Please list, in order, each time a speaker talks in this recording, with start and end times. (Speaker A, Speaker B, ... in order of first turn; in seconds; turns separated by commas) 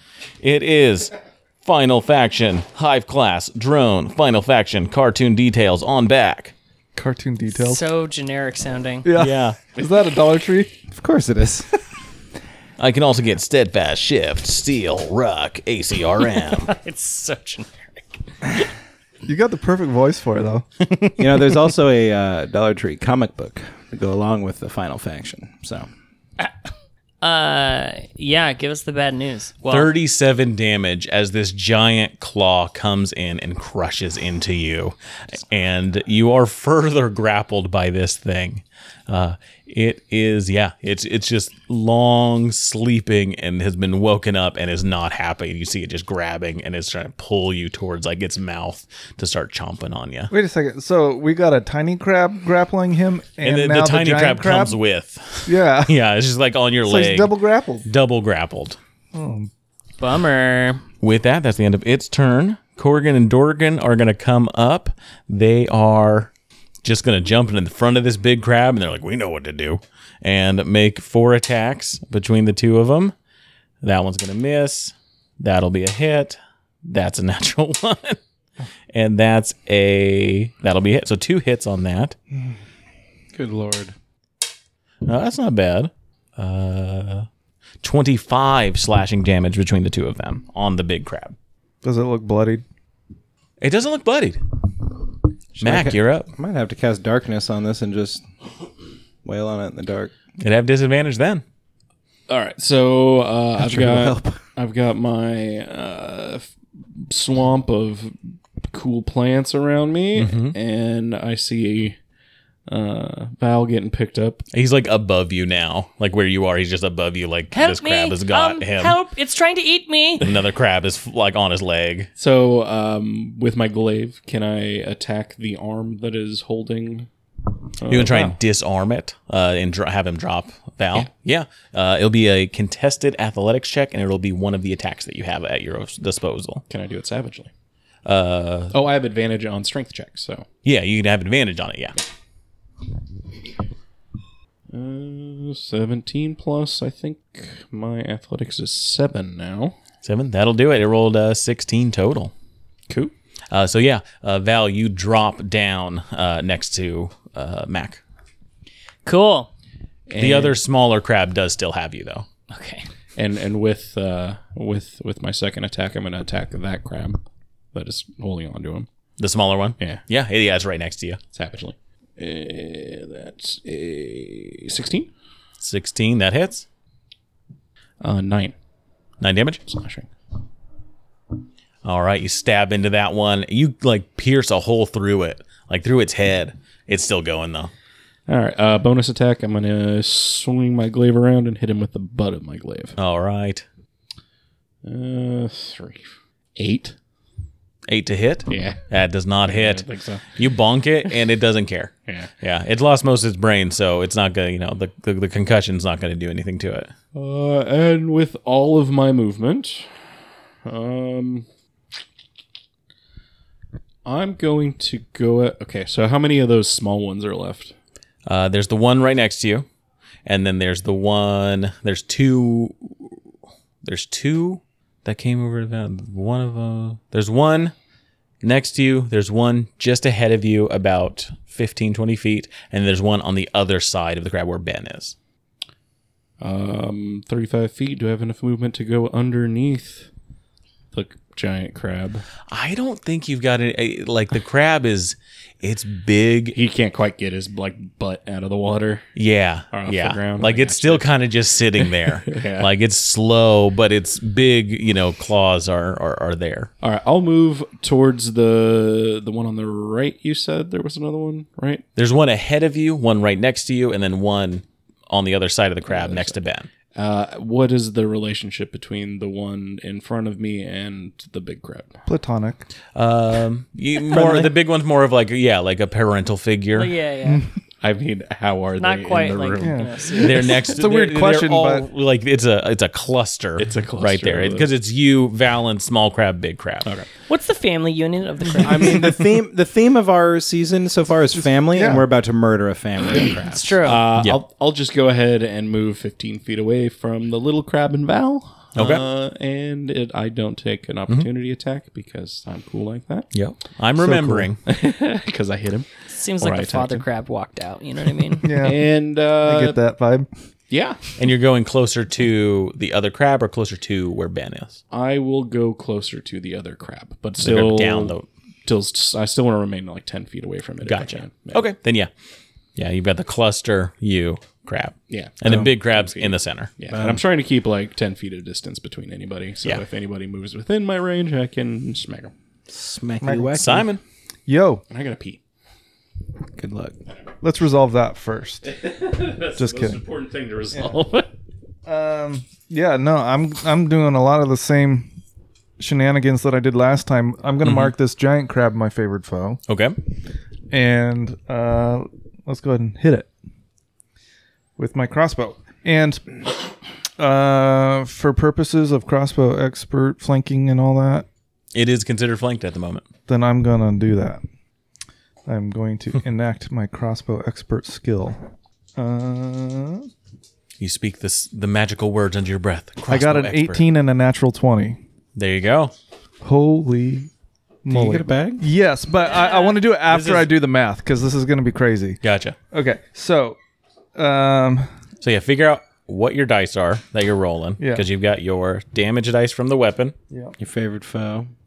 Speaker A: 0.4-6.5, Speaker B: 6.9-7.8, Speaker C: 7.5-9.1, Speaker B: 9.0-10.7, Speaker A: 9.1-9.6, Speaker D: 10.9-11.8, Speaker A: 12.8-16.7, Speaker C: 16.6-18.2, Speaker B: 19.2-20.7, Speaker A: 20.8-21.2, Speaker D: 21.2-25.9, Speaker C: 27.2-29.9, Speaker A: 29.6-50.3, Speaker B: 50.3-54.8, Speaker A: 53.4-58.8, Speaker B: 55.4-56.0, Speaker B: 56.8-57.9, Speaker B: 59.1-59.5, Speaker C: 60.0-60.8, Speaker A: 61.0-66.3, Speaker A: 66.8-73.1, Speaker A: 73.8-78.2, Speaker A: 78.9-82.1, Speaker D: 83.3-83.9, Speaker A: 85.0-87.3, Speaker A: 87.8-91.3, Speaker B: 91.8-92.6, Speaker A: 93.6-94.4, Speaker D: 95.6-98.2, Speaker A: 95.6-96.3, Speaker D: 99.2-100.1, Speaker A: 100.4-101.4, Speaker E: 102.3-108.2, Speaker D: 103.6-104.4, Speaker E: 108.7-112.0, Speaker A: 110.2-110.5, Speaker E: 112.7-114.5, Speaker A: 114.5-119.0, Speaker C: 117.5-120.2, Speaker A: 120.2-122.1, Speaker E: 122.2-127.1, Speaker E: 127.8-128.4, Speaker A: 127.9-136.6, Speaker E: 136.7-137.5, Speaker A: 138.1-138.7, Speaker E: 138.7-140.5, Speaker A: 140.6-141.9, Speaker E: 144.7-149.8, Speaker A: 150.0-152.3, Speaker A: 153.5-158.0, Speaker C: 159.0-159.5, Speaker E: 160.1-160.6, Speaker A: 160.2-162.2, Speaker C: 162.5-162.9, Speaker E: 163.2-167.2, Speaker E: 167.7-168.9, Speaker A: 169.2-171.2, Speaker E: 171.3-175.1, Speaker A: 175.6-176.7, Speaker E: 178.0-178.5, Speaker A: 179.2-179.6, Speaker E: 179.7-180.1, Speaker A: 181.8-187.7, Speaker E: 188.3-192.9, Speaker A: 192.9-193.6, Speaker E: 194.8-196.9, Speaker A: 197.9-206.9, Speaker E: 198.5-198.8, Speaker E: 199.4-200.3, Speaker E: 207.1-209.9, Speaker E: 210.6-211.4, Speaker E: 214.0-217.7, Speaker A: 218.2-219.7, Speaker A: 220.2-223.1, Speaker A: 223.8-227.7, Speaker A: 228.4-235.1, Speaker E: 236.4-240.1, Speaker E: 240.9-242.2, Speaker A: 242.5-246.6, Speaker E: 246.5-249.1, Speaker A: 249.1-256.7, Speaker E: 249.7-251.1, Speaker E: 251.8-252.7, Speaker E: 256.8-261.8, Speaker A: 261.9-266.7, Speaker E: 265.9-266.4, Speaker E: 266.9-272.0, Speaker B: 272.1-272.6, Speaker A: 272.9-276.9, Speaker D: 274.1-274.5, Speaker C: 276.7-277.5, Speaker B: 277.2-277.5, Speaker E: 277.8-280.2, Speaker C: 278.8-280.7, Speaker B: 279.6-281.9, Speaker A: 280.1-286.9, Speaker E: 283.6-284.7, Speaker C: 287.3-289.2, Speaker D: 288.6-293.8, Speaker B: 291.6-292.1, Speaker C: 293.4-294.1, Speaker E: 293.8-303.3, Speaker A: 294.1-294.4, Speaker A: 298.7-299.0, Speaker A: 303.3-304.6, Speaker B: 304.0-304.5, Speaker E: 304.6-307.1, Speaker C: 306.1-308.6, Speaker B: 308.4-310.3, Speaker E: 308.5-309.8, Speaker E: 310.7-311.1, Speaker A: 311.2-314.8, Speaker E: 314.9-321.6, Speaker A: 317.4-318.3, Speaker A: 320.8-322.1, Speaker A: 322.8-326.7, Speaker E: 325.1-332.3, Speaker D: 325.4-325.7, Speaker D: 326.9-327.2, Speaker D: 332.7-333.9, Speaker B: 333.2-333.9, Speaker A: 333.5-334.0, Speaker B: 334.5-334.8, Speaker E: 334.9-335.4, Speaker D: 336.6-337.0, Speaker B: 337.4-338.7, Speaker E: 338.7-341.3, Speaker B: 339.5-340.0, Speaker B: 340.7-341.0, Speaker B: 341.9-345.1, Speaker B: 345.8-349.6, Speaker A: 347.6-347.9, Speaker A: 349.7-349.9, Speaker B: 350.7-353.3, Speaker B: 354.8-356.4, Speaker B: 357.2-361.2, Speaker A: 361.7-363.0, Speaker B: 363.3-364.4, Speaker B: 365.4-368.4, Speaker B: 369.0-370.1, Speaker A: 370.8-373.8, Speaker B: 373.1-375.0, Speaker A: 375.4-375.9, Speaker B: 376.4-377.3, Speaker B: 377.8-383.6, Speaker D: 377.9-378.6, Speaker C: 379.2-379.8, Speaker A: 380.1-380.5, Speaker A: 382.2-382.6, Speaker B: 384.1-384.9, Speaker A: 385.2-390.1, Speaker B: 387.8-388.1, Speaker D: 390.6-391.5